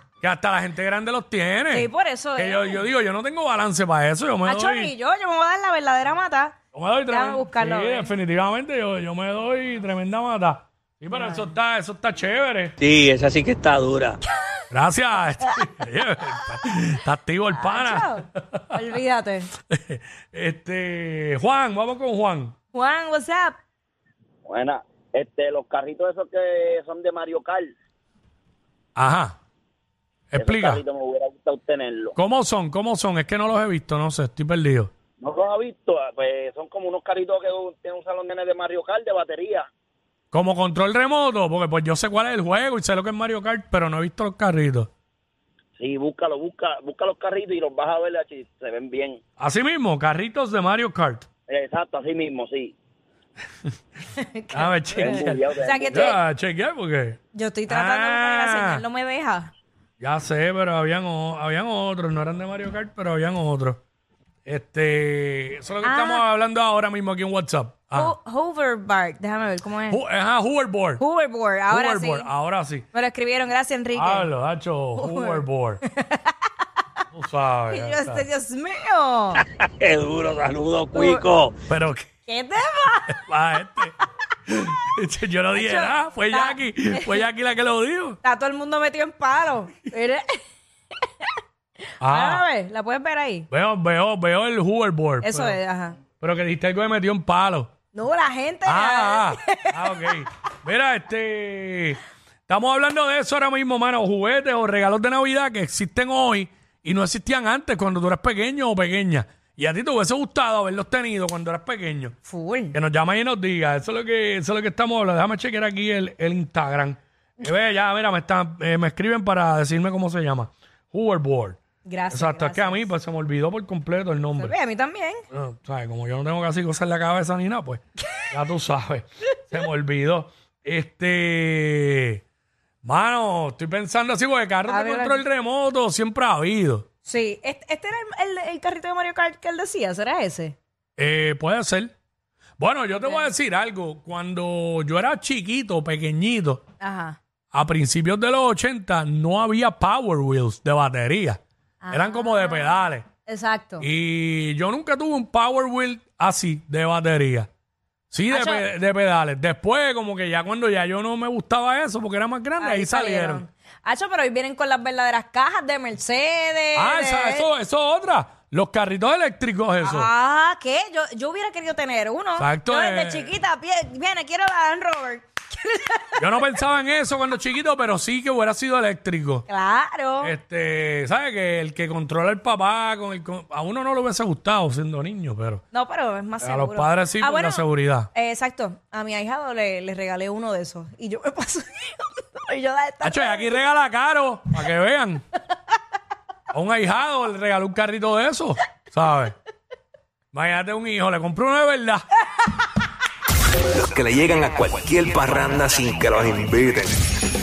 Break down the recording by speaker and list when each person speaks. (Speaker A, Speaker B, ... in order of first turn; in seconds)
Speaker A: 0.2-4.9, 6.7-12.8, 14.7-18.8, 19.7-22.5, 28.9-29.4, 30.3-30.8, 32.1-34.9, 40.3-44.9, 49.4-51.2, 54.5-58.8, 60.0-63.8, 64.5-68.2, 69.9-71.0, 71.7-72.9, 73.9-75.8, 77.1-78.2, 81.7-82.1, 83.1-83.9, 84.5-88.2, 92.0-92.5, 93.5-95.6, 96.2-97.7, 98.6-112.2, 112.7-121.6, 122.1-124.5, 125.3-132.2, 132.8-136.8, 141.0-141.9, 142.6-146.6, 147.5-151.4, 151.9-153.1, 153.8-157.5, 158.1-163.4, 166.8-170.1, 172.4-173.3, 176.2-179.4, 180.2-185.6, 186.4-188.1, 193.0-195.2, 196.5-199.3, 200.3-202.0
Speaker B: 1.7-2.8, 4.4-6.5, 7.1-8.1, 11.1-11.5, 17.5-19.5, 22.7-23.6, 54.1-56.2, 57.3-59.5, 65.8-66.2, 67.9-70.0, 71.0-72.3, 72.9-74.3, 75.0-76.5, 77.7-79.4, 80.9-81.2, 82.3-83.2, 85.5-87.2, 88.2-90.4, 92.0-93.5, 95.2-96.0, 97.9-100.0, 112.2-112.7, 121.8-122.9, 124.4-125.2, 134.7-135.2, 137.0-140.6, 143.0-143.3, 146.8-147.2, 151.8-153.8, 158.3-158.6, 162.6-167.5, 169.8-176.4, 179.5-180.3, 185.7-193.6
Speaker C: 12.8-14.2, 79.6-81.5
Speaker D: 24.4-27.7, 30.4-32.1, 35.2-39.6, 45.8-49.2, 51.5-52.7, 55.0-56.1
Speaker E: 203.7-207.0